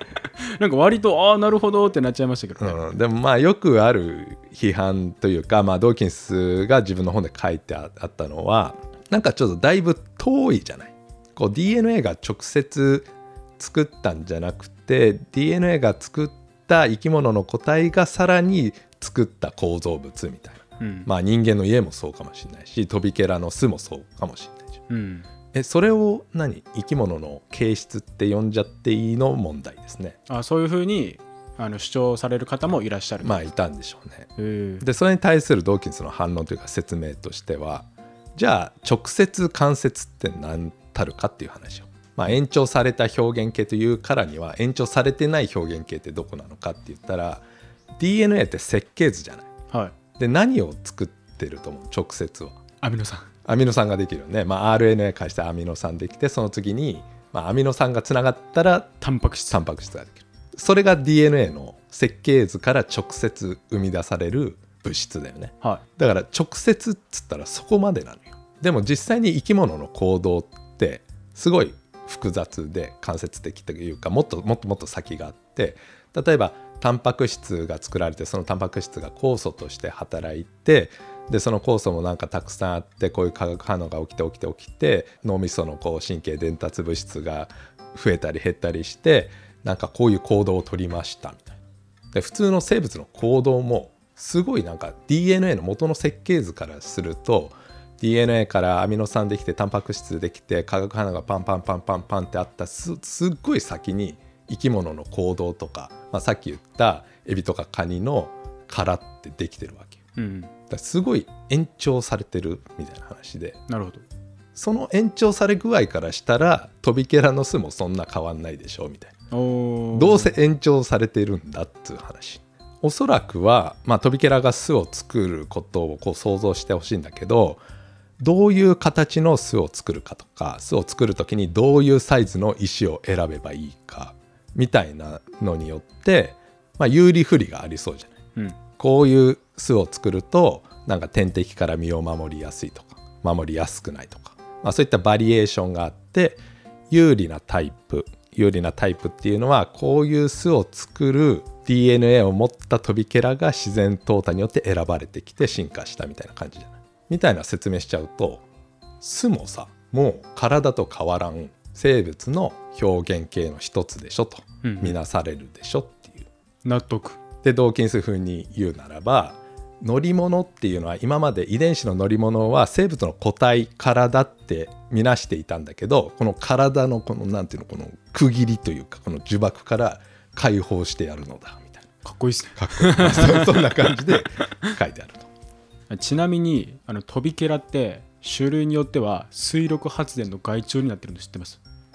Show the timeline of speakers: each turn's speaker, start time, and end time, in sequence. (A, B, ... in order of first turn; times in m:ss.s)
0:00.4-0:02.8 A
0:02.6-0:24.8 B
0:20.8-0:21.1 A
0:24.9-0:25.3 A
0:25.5-0:30.2 B
0:30.3-0:33.4 A
0:33.2-0:34.3 B
0:34.4-0:34.8 A
0:34.8-0:47.4 B
0:48.0-0:49.5 B
0:50.2-0:52.6 B
0:52.8-0:53.3 A
0:53.4-1:31.6 B
0:59.0-0:59.6 A
1:32.1-1:50.0 B
1:50.2-1:50.5 A
1:50.7-1:53.6 B
1:53.7-1:54.0 A
1:54.5-1:59.1 B
1:59.3-2:00.3 A
1:59.9-2:07.6 B
2:08.2-2:18.2 B
2:18.8-2:38.4 B
2:39.0-2:46.3 B
2:44.6-2:45.0 A
2:46.6-2:47.2 A
2:47.4-3:01.9 B
3:02.0-3:04.7 A
3:02.6-3:05.3 B
3:05.9-3:11.6 A